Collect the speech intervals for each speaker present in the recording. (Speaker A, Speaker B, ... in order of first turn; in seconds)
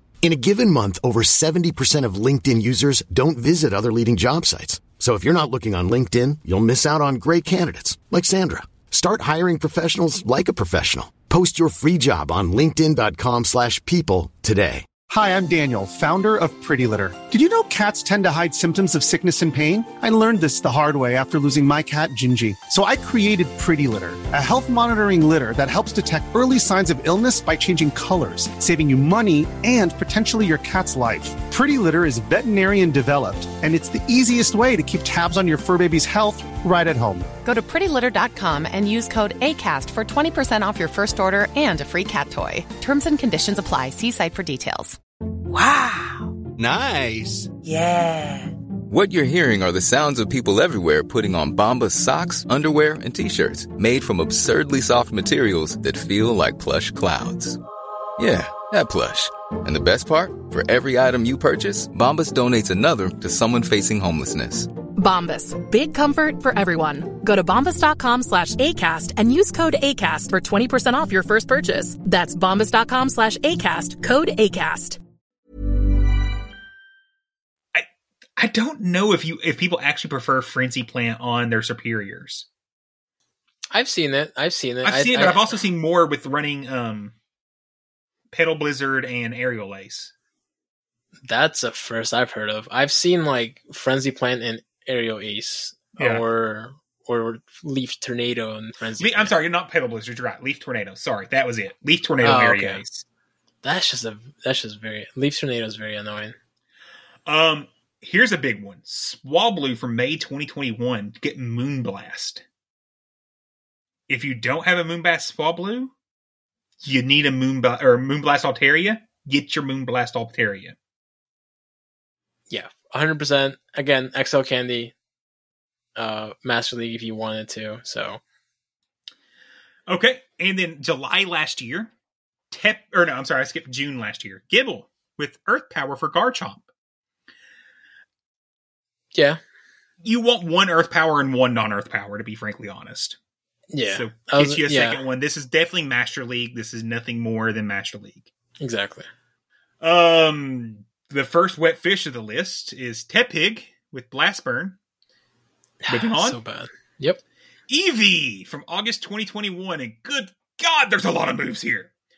Speaker A: 0.2-14.8
Speaker B: 15.1-37.3
Speaker C: 37.5-45.0
Speaker D: 45.5-46.3, 47.6-48.5, 65.0-75.0
Speaker E: 46.6-47.5, 48.9-57.6, 58.2-64.7
Speaker F: 78.4-82.5, 84.8-87.1, 88.3-90.1, 96.0-96.2, 99.0-103.0, 107.3-112.4, 114.1-115.9, 116.8-120.8, 129.9-131.9, 132.5-136.7, 140.0-143.2, 143.8-148.3, 149.8-154.8, 155.9-156.4, 157.7-161.9
Speaker G: 83.7-85.4, 91.3-99.3, 102.2-102.8, 103.6-106.4, 122.5-124.9, 126.0-128.2, 139.1-139.4, 143.7-145.0, 148.6-149.1, 155.8-157.2